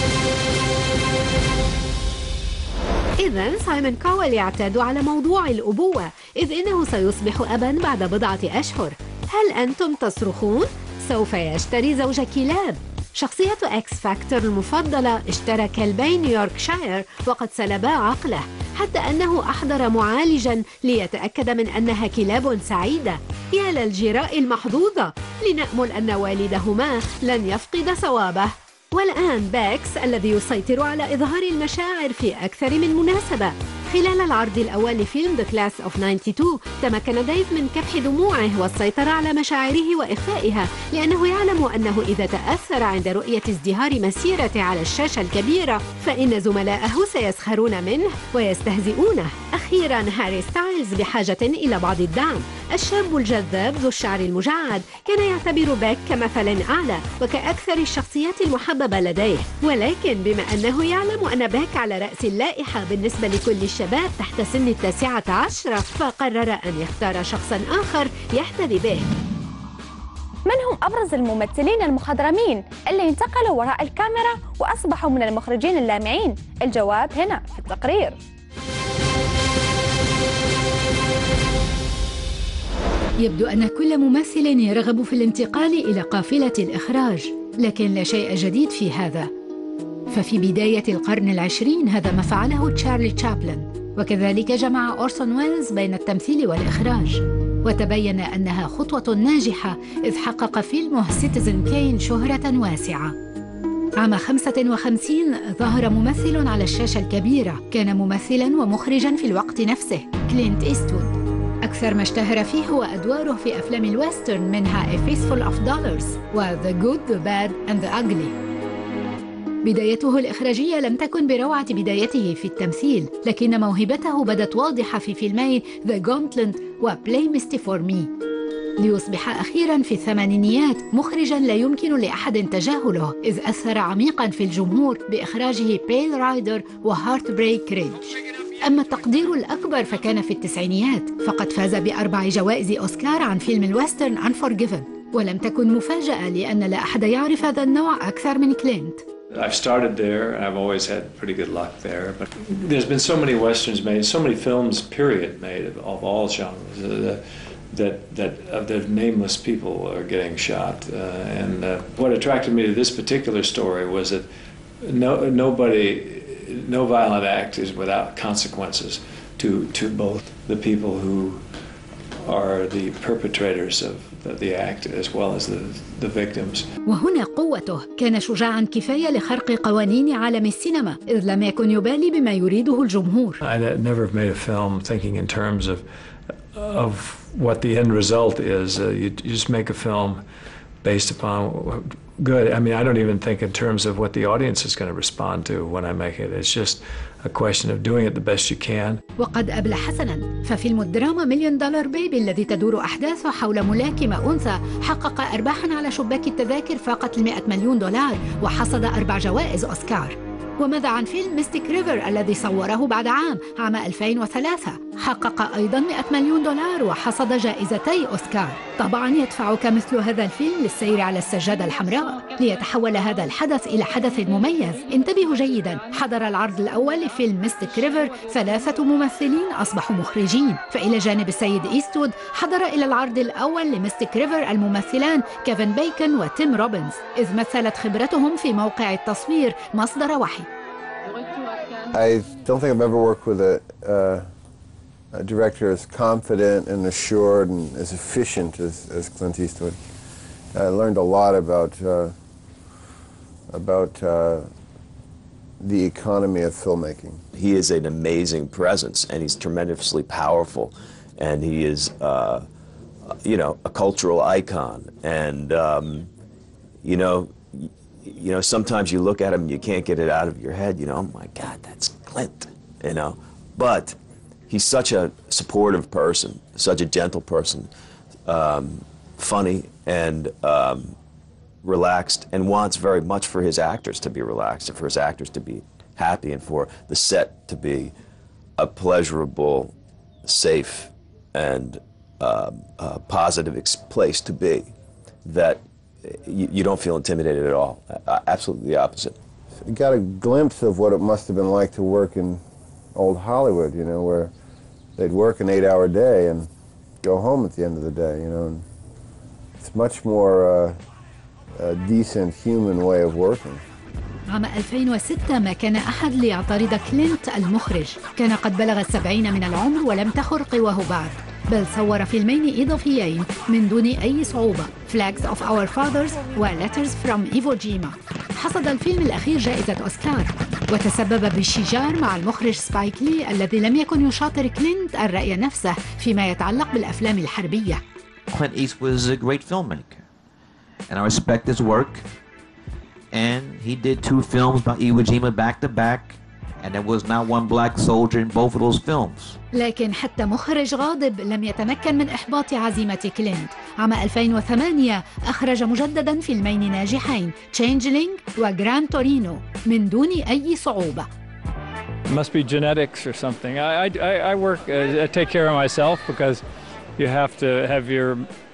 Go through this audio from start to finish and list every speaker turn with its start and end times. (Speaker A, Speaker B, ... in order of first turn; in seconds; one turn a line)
Speaker A: 3.2-69.1
Speaker B: 70.5-78.2
Speaker A: 83.2-89.3
Speaker A: 90.1-103.2
Speaker A: 104.0-118.4
Speaker A: 119.6-128.1
Speaker A: 128.8-138.1
Speaker A: 138.6-149.1
Speaker C: 149.3-164.3
Speaker C: 164.8-171.4
Speaker C: 172.2-176.7
Speaker A: 176.9-183.4
Speaker C: 183.4-185.9
Speaker C: 186.5-190.2
Speaker C: 190.8-199.0
Speaker A: 199.2-240.5
Speaker D: 241.9-244.3
Speaker D: 245.1-249.8
Speaker D: 250.5-252.2
Speaker D: 253.5-254.5
Speaker D: 255.6-257.2
Speaker E: 257.3-262.5
Speaker E: 263.1-266.1
Speaker E: 266.8-274.0
Speaker E: 274.5-277.7
Speaker E: 278.3-281.0
Speaker E: 281.6-287.9
Speaker E: 288.6-289.7
Speaker E: 290.2-294.7
Speaker E: 295.2-299.2
Speaker D: 299.7-302.4
Speaker D: 302.9-304.3
Speaker D: 305.0-306.5
Speaker D: 307.0-308.6
Speaker D: 309.6-310.8
Speaker D: 311.6-313.6
Speaker A: 314.3-337.8
Speaker F: 338.3-340.0
Speaker F: 340.9-342.0
Speaker F: 343.1-349.4
Speaker A: 349.5-361.1
Speaker G: 362.1-366.4
Speaker G: 367.0-368.3